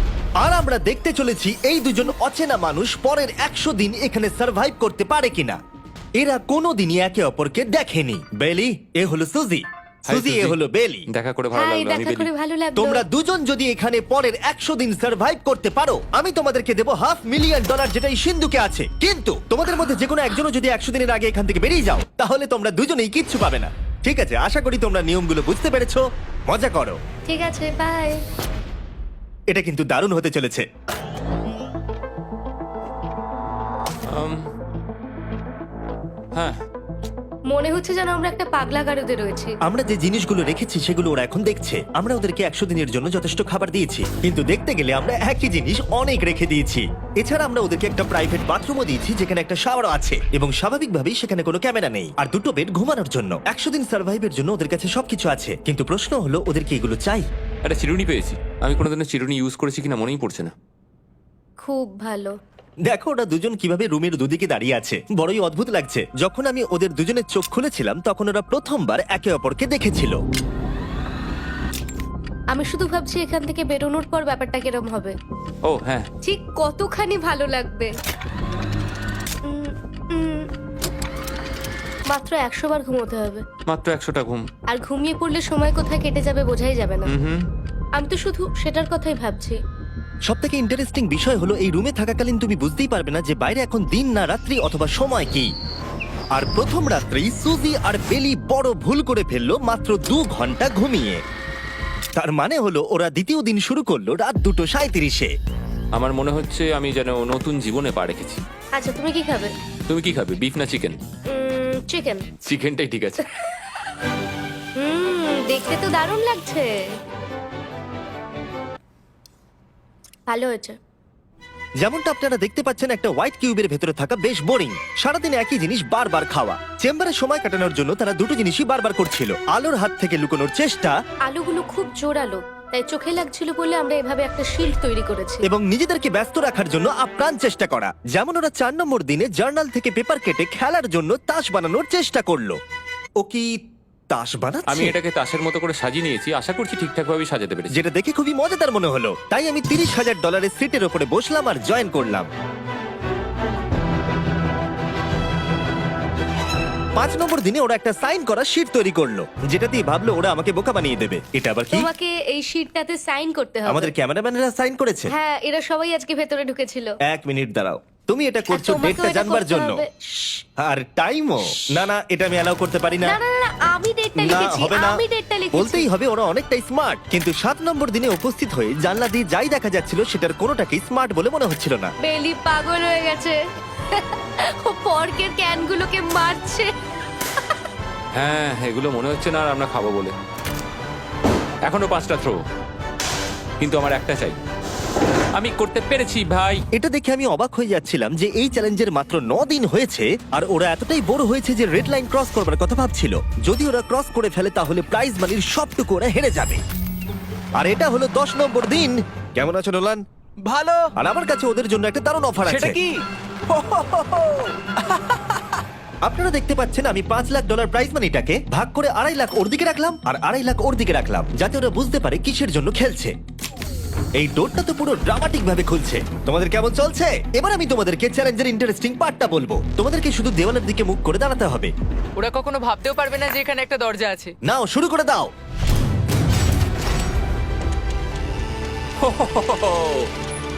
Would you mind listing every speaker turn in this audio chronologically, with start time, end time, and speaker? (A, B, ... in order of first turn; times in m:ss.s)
0:00.4-0:05.6 A
0:06.2-0:11.1 A
0:10.1-0:10.6 B
0:11.1-0:12.3 B
0:11.6-0:13.0 C
0:12.8-0:27.0 A
0:27.3-0:28.2 C
0:29.5-0:30.7 A
0:34.1-0:34.5 B
0:36.3-0:36.6 B
0:37.5-0:39.6 C
0:39.6-0:57.3 A
0:57.6-1:00.5 B
1:01.6-1:02.4 C
1:02.9-1:10.2 A
1:12.5-1:15.2 C
1:15.6-1:16.1 B
1:16.2-1:17.9 C
1:19.4-1:20.5 C
1:22.1-1:23.4 C
1:23.7-1:24.5 B
1:24.7-1:27.1 C
1:27.0-1:27.5 B
1:28.0-1:29.6 C
1:30.3-1:35.5 A
1:36.3-1:41.2 A
1:42.2-1:45.3 A
1:45.9-1:48.4 B
1:48.8-1:49.5 C
1:49.9-1:51.0 B
1:51.3-1:52.3 C
1:52.4-1:53.3 B
1:54.8-1:57.0 C
2:00.3-2:00.8 C
2:01.8-2:11.0 A
2:11.2-2:15.4 C
2:15.4-2:22.6 A
2:23.2-2:23.6 A
2:24.1-2:25.0 A
2:24.7-2:27.8 B
2:27.7-2:32.3 A
2:37.0-2:41.9 A
2:41.7-2:43.9 C
2:43.7-2:45.1 A
2:45.1-2:47.0 C
2:47.0-2:49.8 A
2:48.5-2:50.4 C
2:50.6-2:53.2 A
2:53.0-2:55.9 C
2:54.2-2:55.0 A
2:55.5-3:01.9 A
3:02.0-3:03.4 C
3:03.9-3:06.7 C
3:08.1-3:10.2 B
3:11.7-3:12.4 B
3:13.6-3:14.4 B
3:15.4-3:16.6 B
3:16.7-3:26.6 A
3:27.6-3:30.0 A
3:30.5-3:30.8 D
3:31.0-3:32.8 A
3:32.5-3:32.8 E
3:33.5-3:35.4 E
3:36.0-3:43.2 A
3:44.2-3:51.7 A
3:52.2-3:54.3 D
3:54.4-3:55.3 A
3:59.0-4:00.1 B